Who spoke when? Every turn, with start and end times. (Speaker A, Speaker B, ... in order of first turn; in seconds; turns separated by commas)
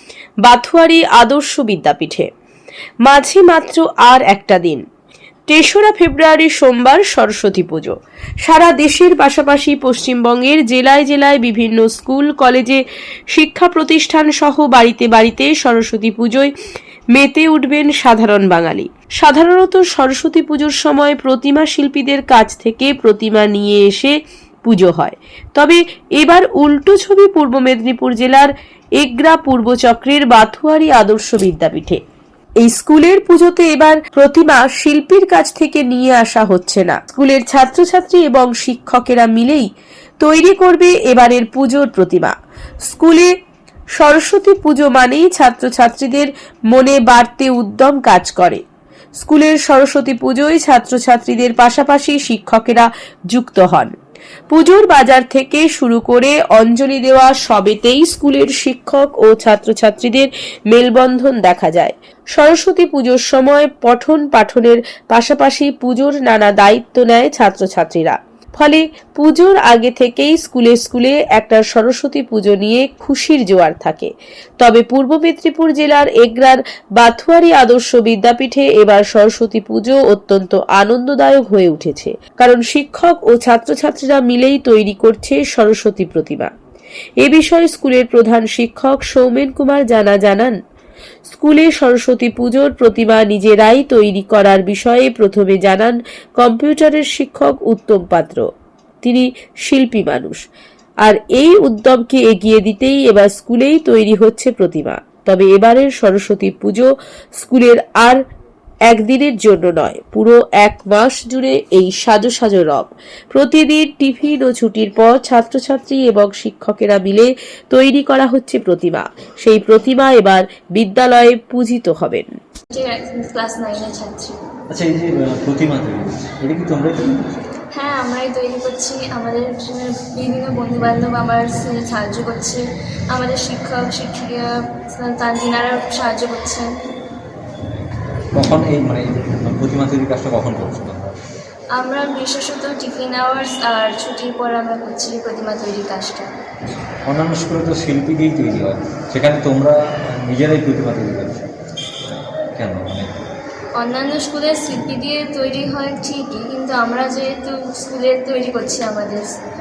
Speaker A: 0.5-2.3, Speaker A: 3.1-4.8, Speaker A: 5.5-16.5, Speaker A: 17.1-32.0, Speaker A: 32.6-39.7, Speaker A: 40.2-42.4, Speaker A: 42.9-43.3, Speaker A: 44.0-48.6, Speaker A: 49.2-53.9, Speaker A: 54.5-86.5, Speaker A: 87.2-90.6, Speaker A: 91.3-98.4, Speaker A: 99.0-100.5, Speaker A: 101.0-108.2, Speaker A: 108.9-122.3, Speaker B: 122.7-124.4, Speaker C: 124.7-127.5, Speaker B: 127.8-132.6, Speaker B: 133.1-136.7, Speaker C: 138.3-141.2, Speaker B: 141.8-146.3, Speaker C: 147.1-151.5, Speaker C: 152.6-153.2, Speaker B: 153.8-159.2